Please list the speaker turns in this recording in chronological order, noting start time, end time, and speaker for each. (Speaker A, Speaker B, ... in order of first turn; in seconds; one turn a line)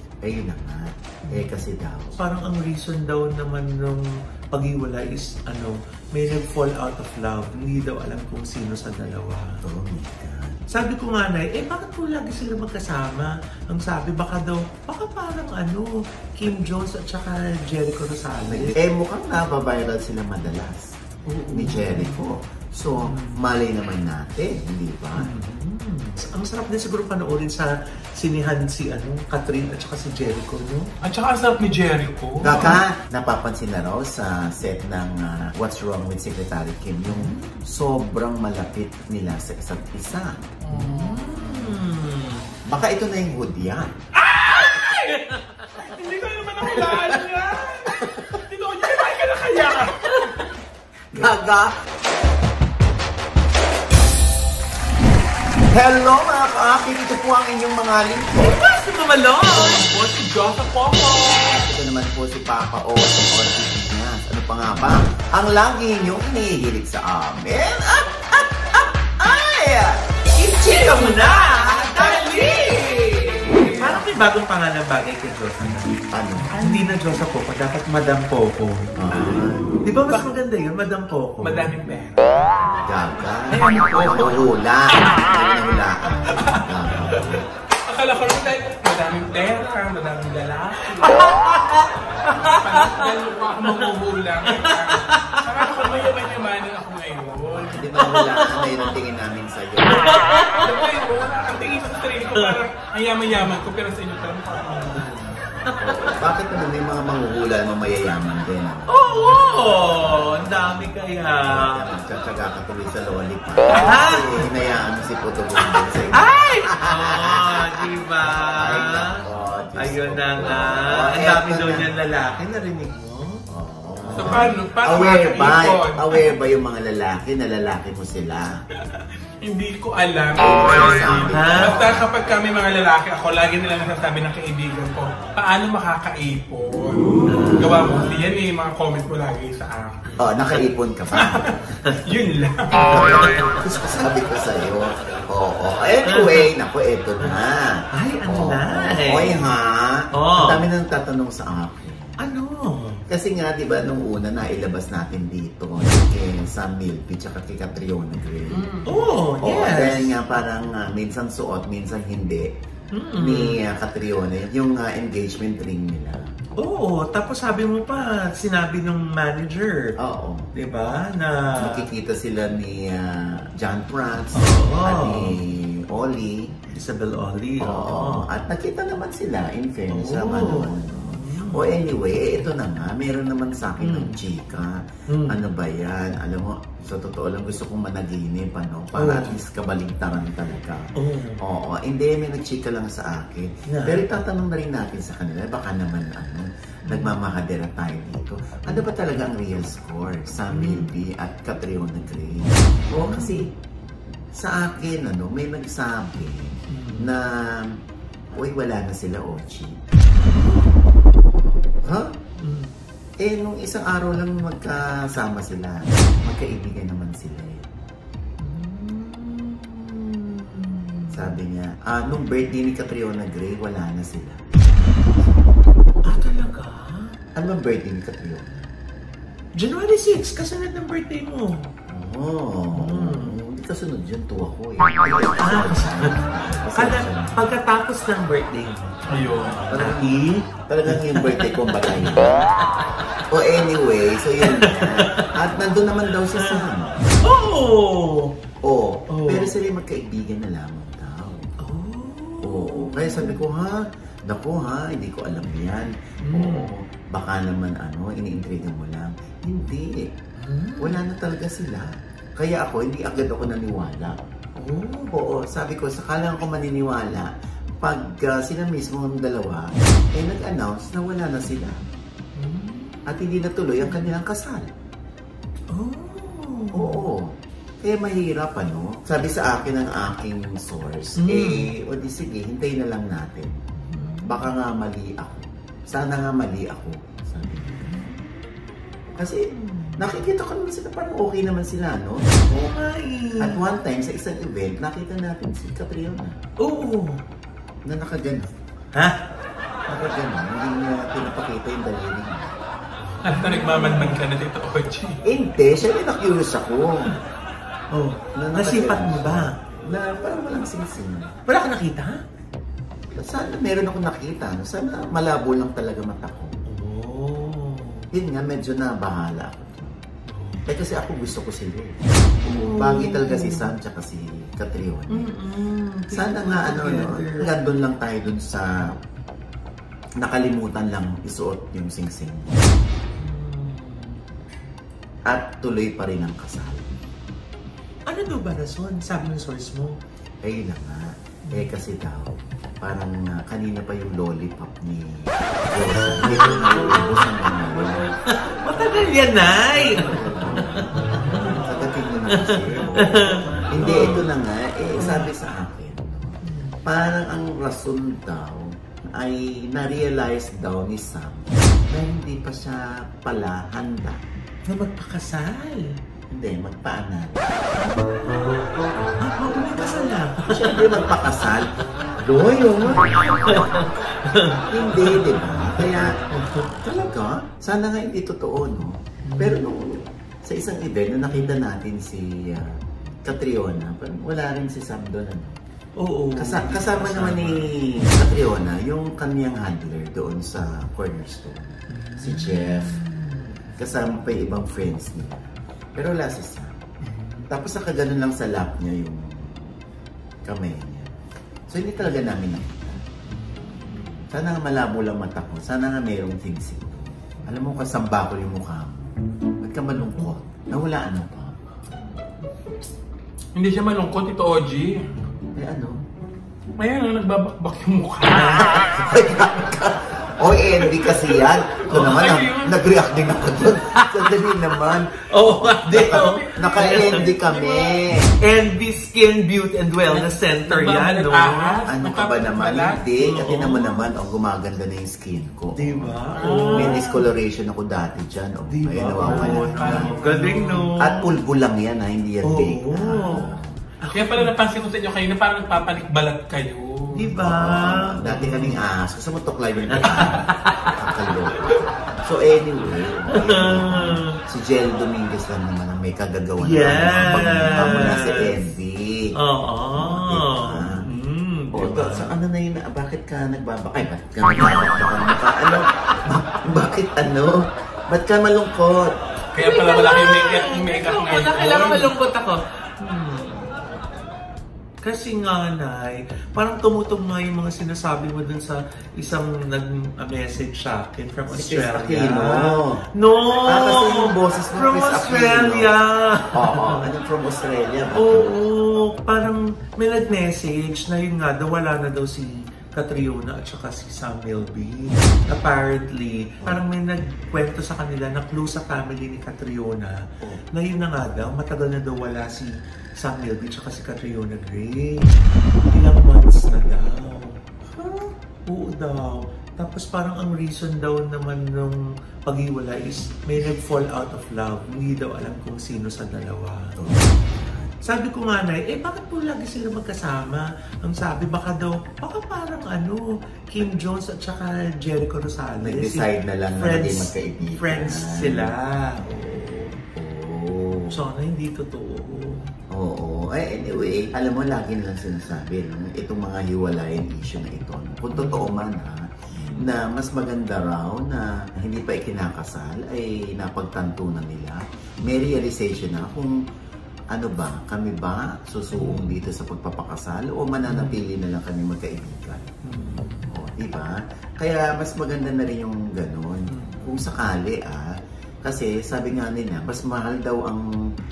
Speaker A: 0.2-2.2
Speaker B: 2.2-9.6
Speaker A: 9.6-10.7
Speaker B: 10.7-18.8
Speaker A: 18.5-20.9
Speaker B: 21.3-22.2
Speaker A: 21.5-25.3
Speaker B: 22.9-23.4
Speaker B: 25.2-30.9
Speaker C: 31.0-32.8
Speaker A: 32.4-40.4
Speaker B: 37.1-37.6
Speaker C: 40.6-41.6
Speaker B: 40.7-42.5
Speaker A: 42.7-43.9
Speaker C: 44.2-50.4
Speaker B: 44.5-45.8
Speaker A: 46.7-47.3
Speaker A: 47.9-48.4
Speaker B: 50.0-50.5
Speaker A: 51.1-51.8
Speaker A: 55.7-58.6
Speaker B: 58.4-59.9
Speaker C: 59.5-61.6
Speaker A: 61.3-70.1
Speaker B: 70.3-76.0
Speaker C: 71.7-73.8
Speaker A: 73.8-74.1
Speaker A: 76.1-76.6
Speaker C: 76.5-77.0
Speaker B: 76.6-78.9
Speaker A: 79.0-79.8
Speaker B: 79.8-81.8
Speaker C: 81.4-82.4
Speaker A: 82.8-87.5
Speaker C: 83.5-84.5
Speaker C: 86.3-91.4
Speaker B: 91.0-93.9
Speaker C: 92.2-97.9
Speaker B: 94.5-95.8
Speaker A: 97.7-100.4
Speaker B: 98.0-99.0
Speaker B: 99.9-101.0
Speaker C: 100.5-105.2
Speaker B: 102.4-102.6
Speaker B: 104.7-106.2
Speaker A: 105.8-108.9
Speaker B: 108.9-111.9
Speaker A: 111.5-117.9
Speaker B: 113.8-114.5
Speaker B: 115.7-119.2
Speaker A: 118.6-121.9
Speaker B: 119.8-123.4
Speaker A: 123.5-128.6
Speaker B: 124.0-124.5
Speaker C: 124.2-126.3
Speaker C: 128.9-140.0
Speaker A: 130.4-132.1
Speaker B: 131.3-131.8
Speaker B: 137.3-137.8
Speaker A: 137.4-137.9
Speaker A: 140.2-141.6
Speaker C: 141.1-143.3
Speaker A: 143.0-152.2
Speaker B: 146.1-146.5
Speaker B: 147.9-149.4
Speaker B: 150.1-150.6
Speaker B: 152.2-153.0
Speaker A: 153.1-158.7
Speaker C: 158.5-159.0
Speaker B: 158.8-160.2
Speaker A: 159.4-162.5
Speaker B: 162.9-163.6
Speaker A: 163.2-166.4
Speaker B: 166.6-170.0
Speaker A: 170.0-170.5
Speaker B: 170.5-171.8
Speaker A: 171.6-176.6
Speaker B: 174.3-175.4
Speaker B: 176.7-178.3
Speaker A: 177.6-203.5
Speaker B: 179.9-181.7
Speaker B: 183.8-184.2
Speaker B: 185.1-185.4
Speaker B: 189.0-189.3
Speaker B: 191.0-191.4
Speaker B: 193.7-194.1
Speaker B: 196.9-197.2
Speaker B: 200.5-200.9
Speaker B: 203.0-203.5
Speaker A: 204.3-207.8
Speaker B: 206.7-207.1
Speaker A: 208.3-209.8
Speaker B: 210.2-210.7
Speaker A: 211.8-212.2
Speaker B: 212.4-212.7
Speaker A: 213.2-217.7
Speaker B: 218.4-221.3
Speaker A: 221.1-225.4
Speaker B: 226.0-227.2
Speaker A: 227.3-228.7
Speaker B: 229.6-231.7
Speaker A: 231.9-237.4
Speaker B: 232.7-233.4
Speaker B: 235.4-236.2
Speaker B: 236.7-243.0
Speaker C: 239.1-239.7
Speaker A: 239.6-242.5
Speaker A: 243.3-247.2
Speaker B: 244.4-245.3
Speaker B: 246.4-246.7
Speaker B: 247.2-248.3
Speaker A: 248.6-251.5
Speaker B: 249.1-249.5
Speaker B: 251.6-253.4
Speaker A: 252.4-260.1
Speaker B: 256.2-256.7
Speaker B: 260.4-261.0
Speaker A: 260.8-264.2
Speaker B: 264.6-265.2
Speaker A: 265.1-267.3
Speaker A: 267.8-271.8
Speaker B: 272.4-273.0
Speaker A: 273.1-274.7
Speaker B: 273.8-274.1
Speaker B: 275.7-277.0
Speaker A: 276.7-283.6
Speaker B: 281.2-281.7
Speaker B: 283.8-284.5
Speaker A: 284.2-288.0
Speaker B: 287.6-288.5
Speaker A: 289.1-292.4
Speaker B: 289.5-290.1
Speaker B: 292.5-293.6
Speaker A: 293.4-296.4
Speaker B: 296.6-297.2
Speaker A: 297.9-298.5
Speaker A: 299.9-302.6
Speaker C: 303.2-305.2
Speaker B: 303.2-304.2
Speaker A: 305.2-307.1
Speaker B: 307.9-309.6
Speaker A: 308.4-311.4
Speaker B: 311.5-312.2
Speaker A: 313.1-316.6
Speaker B: 316.7-318.1
Speaker A: 318.1-320.0
Speaker B: 320.3-320.7
Speaker A: 320.7-325.3
Speaker B: 322.4-323.7
Speaker B: 325.1-327.5
Speaker A: 326.1-329.0
Speaker A: 330.2-332.8
Speaker B: 333.2-334.2
Speaker A: 335.3-336.9
Speaker B: 338.1-340.0
Speaker A: 340.4-348.0
Speaker B: 346.2-346.5
Speaker B: 348.3-351.6
Speaker A: 350.0-364.2
Speaker B: 352.3-354.3
Speaker B: 355.0-355.3
Speaker B: 356.4-356.8
Speaker B: 364.7-366.0
Speaker A: 366.3-367.6
Speaker B: 367.8-368.6
Speaker B: 369.2-371.2
Speaker A: 370.5-373.8
Speaker B: 373.4-375.2
Speaker A: 374.7-376.2
Speaker B: 376.3-376.7
Speaker A: 376.7-385.6
Speaker B: 379.2-379.7
Speaker B: 386.0-387.7
Speaker A: 386.4-393.0
Speaker B: 391.9-393.7
Speaker A: 393.8-396.8
Speaker B: 397.1-397.5
Speaker A: 397.5-399.8
Speaker A: 400.4-401.1
Speaker A: 401.7-403.0
Speaker B: 403.3-404.2
Speaker A: 404.3-411.6
Speaker C: 413.6-415.1
Speaker A: 415.6-416.0
Speaker C: 416.8-419.0
Speaker B: 418.3-419.3
Speaker A: 418.6-428.4
Speaker C: 420.9-422.8
Speaker B: 423.9-427.2
Speaker C: 425.9-428.0
Speaker B: 428.4-431.8
Speaker C: 430.1-433.9
Speaker A: 431.9-440.1
Speaker B: 433.2-433.8
Speaker B: 435.7-437.1
Speaker C: 436.4-437.1
Speaker B: 438.7-441.3
Speaker C: 439.2-440.9
Speaker A: 441.0-443.8
Speaker B: 442.4-444.5
Speaker C: 444.1-447.3
Speaker B: 447.1-448.8
Speaker A: 447.3-459.3
Speaker B: 449.9-451.0
Speaker B: 453.3-454.4
Speaker B: 456.6-458.6
Speaker B: 459.4-462.3
Speaker A: 460.0-461.1
Speaker A: 461.7-469.1
Speaker C: 469.5-472.1
Speaker B: 469.6-473.9
Speaker B: 475.0-487.1
Speaker A: 481.5-483.0
Speaker A: 483.6-485.9
Speaker A: 486.5-488.6
Speaker B: 488.1-500.2
Speaker B: 500.7-507.6
Speaker A: 508.0-508.3
Speaker B: 508.6-517.0
Speaker A: 517.0-517.9
Speaker B: 518.0-530.0
Speaker A: 525.8-528.8
Speaker A: 530.1-531.2
Speaker B: 531.1-532.7
Speaker A: 532.9-546.6
Speaker B: 538.3-538.7
Speaker B: 539.6-539.9
Speaker A: 547.3-552.7
Speaker B: 548.9-549.4
Speaker B: 550.9-551.2
Speaker B: 552.8-553.5
Speaker A: 553.5-560.9
Speaker B: 556.7-557.0